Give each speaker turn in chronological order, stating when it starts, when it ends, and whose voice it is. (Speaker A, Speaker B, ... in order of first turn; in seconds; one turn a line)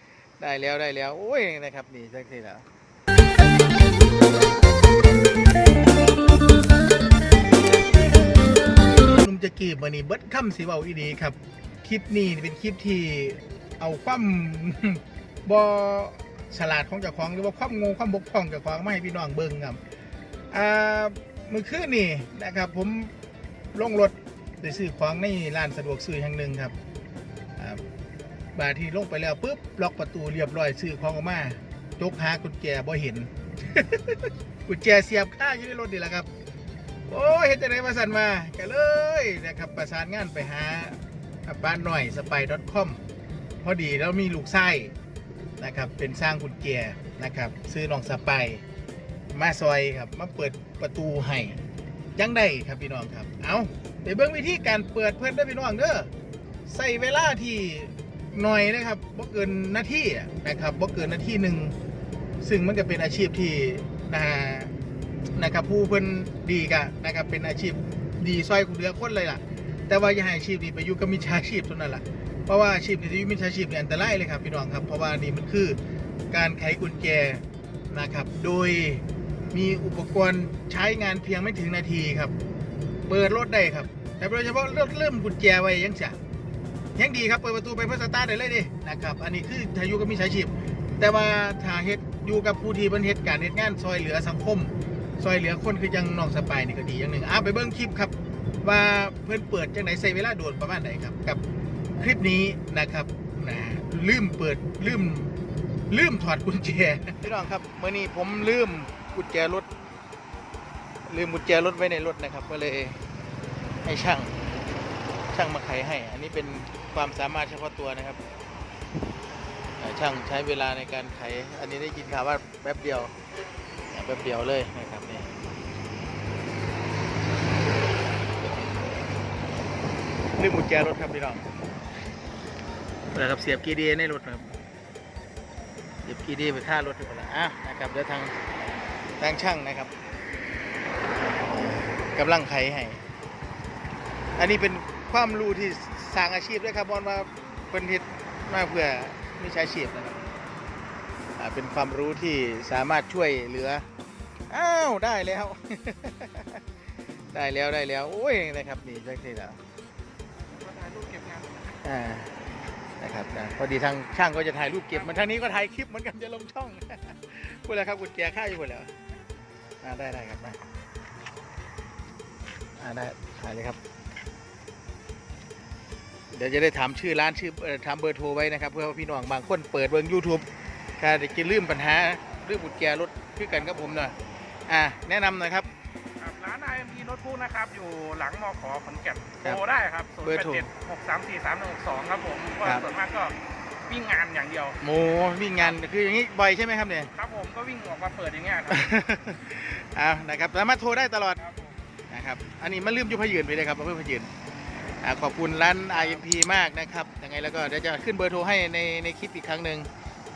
Speaker A: 0.4-2.7
Speaker A: 7.5-19.8
Speaker A: 20.5-23.1
Speaker A: 23.7-26.8
Speaker A: 27.6-27.8
Speaker A: 28.6-36.3
Speaker A: 37.1-43.0
Speaker A: 43.6-44.9
Speaker A: 45.6-48.6
Speaker A: 49.3-51.6
Speaker A: 52.2-56.1
Speaker A: 56.7-61.8
Speaker A: 62.4-64.7
Speaker A: 65.3-75.8
Speaker A: 76.3-82.3
Speaker A: 83.1-86.2
Speaker A: 87.0-105.3
Speaker A: 105.9-109.7
Speaker A: 111.1-113.0
Speaker A: 113.8-114.4
Speaker A: 115.3-118.2
Speaker A: 119.8-123.1
Speaker A: 123.9-125.4
Speaker A: 130.4-131.5
Speaker A: 133.1-134.6
Speaker A: 136.1-138.4
Speaker A: 139.2-139.9
Speaker A: 141.4-143.0
Speaker A: 144.4-150.2
Speaker A: 151.4-153.8
Speaker A: 154.5-156.6
Speaker A: 157.3-159.6
Speaker B: 160.5-161.8
Speaker A: 161.8-162.3
Speaker A: 163.0-168.9
Speaker B: 164.9-165.4
Speaker A: 169.8-170.6
Speaker A: 172.8-173.8
Speaker A: 176.3-180.5
Speaker A: 181.0-184.2
Speaker A: 184.7-185.7
Speaker B: 186.2-193.4
Speaker A: 190.2-190.7
Speaker B: 193.9-194.8
Speaker A: 194.8-197.1
Speaker B: 195.6-195.8
Speaker B: 197.2-198.9
Speaker A: 198.7-201.4
Speaker B: 201.4-201.8
Speaker A: 202.1-204.3
Speaker A: 205.0-209.9
Speaker B: 205.9-206.3